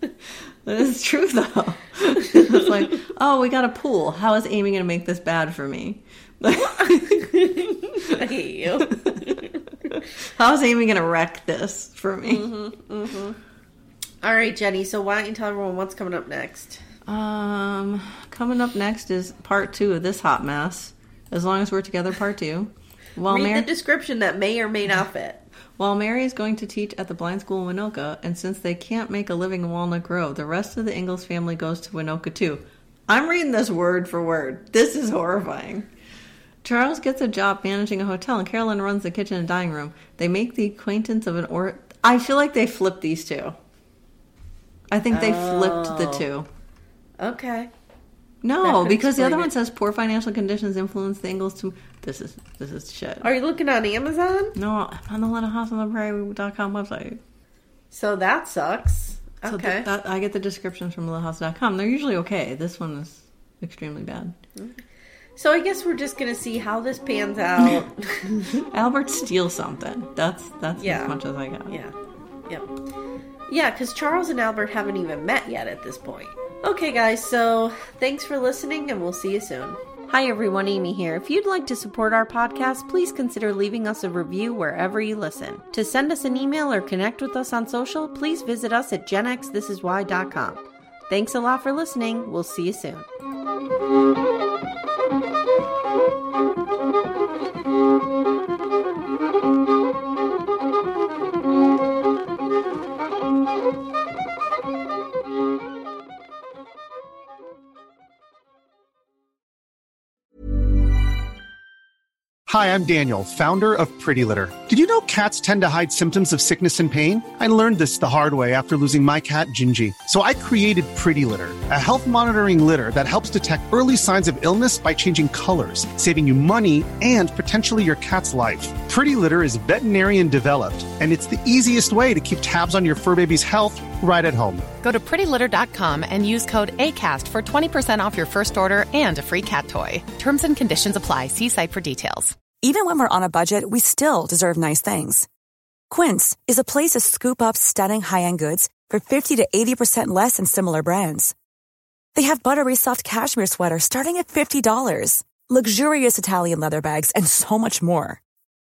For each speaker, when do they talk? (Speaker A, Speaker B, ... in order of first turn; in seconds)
Speaker A: 0.6-7.6, 8.9-9.3, 9.9-12.5, 17.1-23.7, 25.8-35.9, 36.6-43.5, 44.9-46.5, 48.4-53.3, 54.5-57.2, 59.5-64.3, 67.6-67.8, 68.6-71.8
Speaker B: 7.4-9.6, 12.2-13.4, 14.2-16.8, 23.3-25.4, 45.1-46.2, 47.2-47.7, 48.6-49.5, 53.2-54.5, 57.9-59.9, 64.5-64.8, 65.4-68.6, 70.8-71.2, 71.7-71.9, 73.5-93.1
Speaker C: 112.5-134.7
Speaker D: 134.8-142.3
Speaker E: 142.6-145.3, 145.9-151.3, 152.1-158.2